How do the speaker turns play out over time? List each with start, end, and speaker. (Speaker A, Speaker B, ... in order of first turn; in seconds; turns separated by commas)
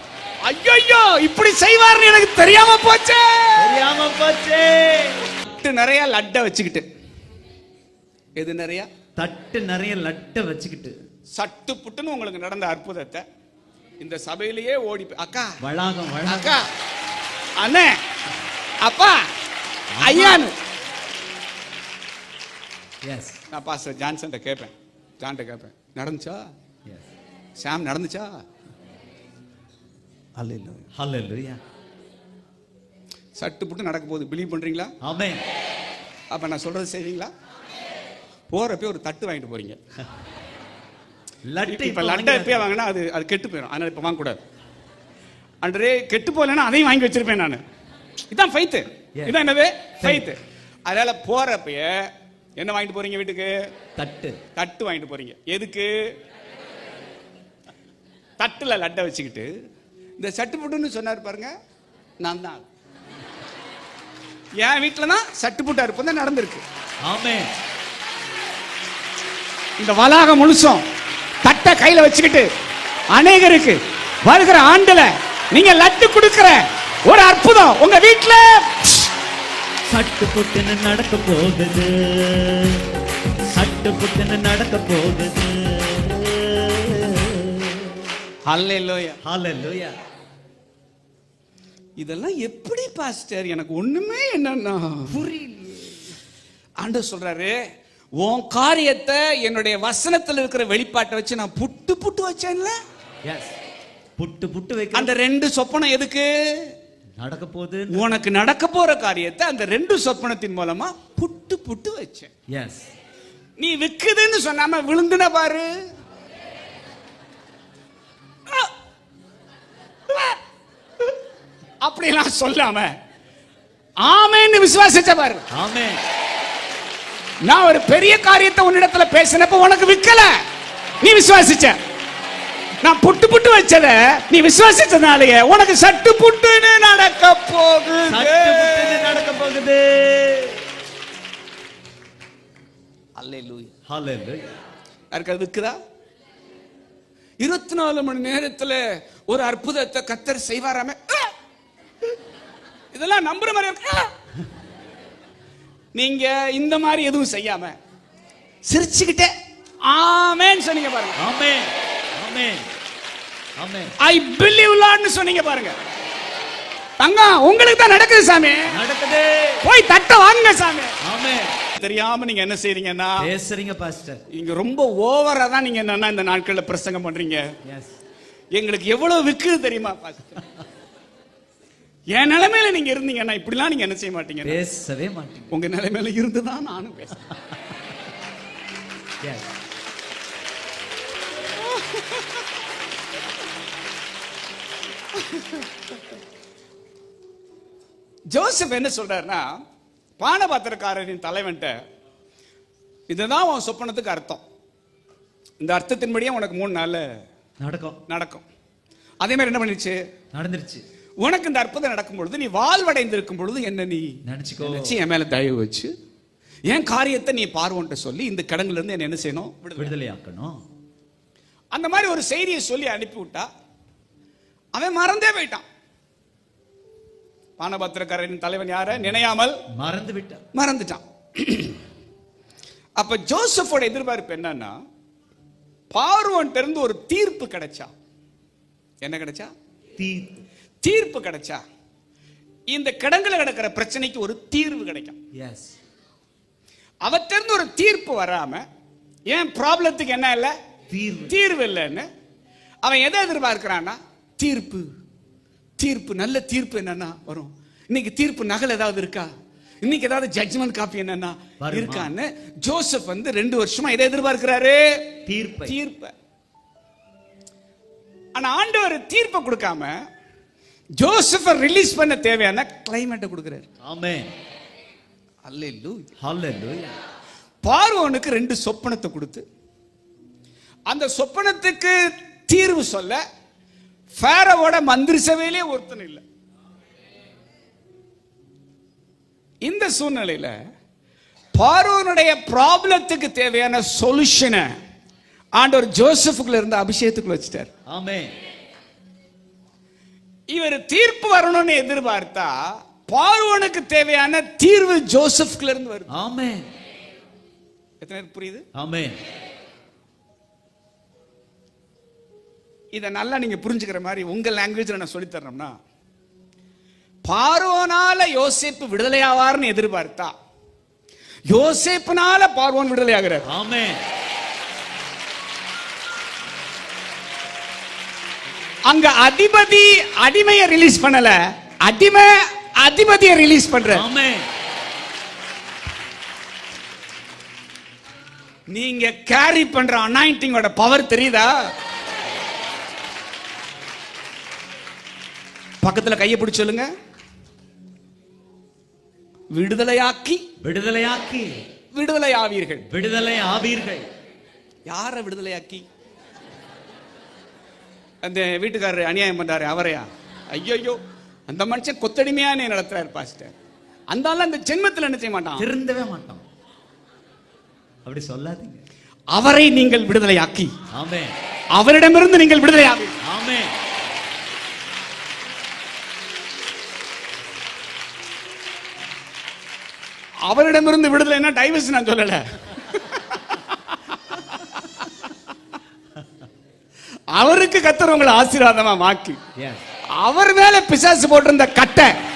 Speaker A: 0.4-3.7, Speaker B: 3.6-5.3, Speaker A: 5.5-6.8, Speaker A: 8.4-8.9, Speaker B: 9.2-10.9, Speaker A: 11.3-13.2, Speaker A: 14.0-15.5, Speaker B: 15.6-16.6, Speaker A: 16.2-16.6, Speaker A: 17.6-18.0, Speaker A: 18.8-19.2, Speaker B: 19.9-20.4, Speaker A: 20.0-20.5, Speaker B: 23.0-23.4, Speaker A: 23.5-26.5, Speaker A: 27.6-28.3, Speaker A: 30.4-30.9, Speaker B: 30.9-31.6, Speaker A: 33.4-34.9, Speaker B: 35.0-35.4, Speaker A: 36.3-37.3, Speaker A: 38.5-39.8, Speaker B: 41.5-42.7, Speaker A: 41.6-44.4, Speaker A: 45.6-47.6, Speaker A: 48.3-53.5, Speaker B: 50.0-50.3, Speaker B: 54.0-54.4, Speaker A: 54.5-55.9, Speaker A: 58.4-59.5, Speaker A: 60.2-61.5, Speaker A: 62.2-62.6, Speaker A: 64.6-66.6, Speaker B: 67.0-67.5, Speaker A: 69.8-70.8, Speaker A: 71.4-72.5, Speaker A: 73.1-79.1, Speaker B: 79.9-83.0, Speaker B: 83.5-88.1, Speaker A: 88.5-89.2, Speaker B: 89.2-89.9, Speaker A: 92.0-95.2, Speaker B: 95.1-96.1, Speaker A: 96.8-97.5, Speaker A: 98.2-102.8, Speaker B: 103.2-103.5, Speaker B: 104.2-105.1, Speaker A: 104.9-106.7, Speaker B: 107.2-108.1, Speaker A: 107.9-112.3, Speaker B: 112.5-112.9, Speaker A: 113.6-115.7, Speaker A: 121.8-122.9, Speaker A: 124.0-125.5, Speaker B: 125.5-126.0, Speaker A: 127.4-130.4, Speaker A: 131.0-131.8, Speaker A: 132.8-139.2, Speaker B: 138.1-140.6, Speaker A: 143.2-143.7, Speaker B: 143.9-144.5, Speaker A: 145.1-145.8, Speaker A: 147.4-151.3, Speaker A: 152.9-154.1, Speaker A: 155.9-157.8, Speaker A: 158.7-159.3, Speaker A: 159.8-161.2, Speaker B: 161.2-162.7, Speaker B: 163.6-163.9, Speaker A: 164.0-165.7, Speaker A: 167.0-168.7, Speaker B: 168.7-169.6, Speaker A: 169.6-171.0, Speaker B: 171.0-171.6, Speaker A: 171.7-173.3, Speaker B: 173.2-174.2, Speaker A: 174.3-177.4, Speaker B: 177.6-177.9, Speaker A: 178.5-180.4, Speaker A: 182.1-184.6, Speaker B: 184.4-185.6, Speaker A: 185.5-187.2, Speaker B: 189.2-189.5, Speaker A: 191.6-192.5, Speaker A: 195.1-195.7, Speaker A: 198.3-199.6, Speaker A: 200.2-201.7, Speaker A: 203.1-204.4, Speaker A: 205.6-207.1, Speaker B: 207.6-208.0, Speaker A: 208.1-208.4, Speaker A: 209.2-210.0, Speaker B: 210.3-210.8, Speaker A: 211.2-215.9, Speaker B: 214.2-215.0, Speaker A: 216.7-220.0, Speaker B: 219.8-220.6, Speaker A: 221.7-223.5, Speaker A: 224.7-225.6, Speaker A: 227.6-229.6, Speaker B: 229.7-230.4, Speaker A: 230.5-231.8, Speaker A: 233.0-234.8, Speaker A: 235.9-237.9, Speaker A: 239.0-239.5, Speaker B: 240.0-240.4, Speaker A: 240.8-241.6, Speaker A: 242.7-245.2, Speaker B: 245.3-245.7, Speaker A: 247.0-248.6, Speaker A: 249.3-250.5, Speaker B: 250.9-251.3, Speaker A: 251.3-252.1, Speaker A: 252.8-254.9, Speaker A: 255.8-259.3, Speaker A: 259.8-265.0, Speaker B: 261.6-262.1, Speaker B: 265.2-265.7, Speaker A: 265.7-266.1, Speaker A: 268.3-269.9, Speaker A: 271.0-273.7, Speaker B: 273.8-274.3, Speaker A: 275.4-276.1, Speaker B: 276.2-276.9, Speaker A: 277.6-279.4, Speaker A: 280.9-283.2, Speaker A: 284.1-286.2, Speaker A: 289.6-290.5, Speaker A: 291.5-294.7, Speaker A: 295.6-297.7, Speaker B: 297.9-298.3, Speaker A: 300.5-306.1, Speaker B: 306.1-306.7, Speaker A: 308.0-308.6, Speaker B: 308.7-309.2, Speaker A: 312.9-315.7, Speaker A: 317.2-320.3, Speaker A: 321.5-323.5, Speaker B: 323.5-324.0, Speaker A: 328.9-334.0, Speaker B: 333.9-334.5, Speaker A: 338.7-341.7, Speaker A: 345.8-346.9, Speaker A: 349.5-350.4, Speaker B: 350.6-351.6, Speaker A: 351.9-352.9, Speaker B: 352.9-354.1, Speaker A: 354.9-355.8, Speaker A: 358.2-363.5, Speaker A: 364.1-365.6, Speaker B: 365.6-366.4, Speaker B: 368.0-368.8, Speaker A: 369.3-370.7, Speaker B: 370.9-371.4, Speaker A: 371.7-373.2, Speaker B: 373.2-373.7, Speaker A: 380.4-385.1, Speaker A: 387.3-389.4, Speaker B: 389.6-389.8, Speaker A: 390.1-392.1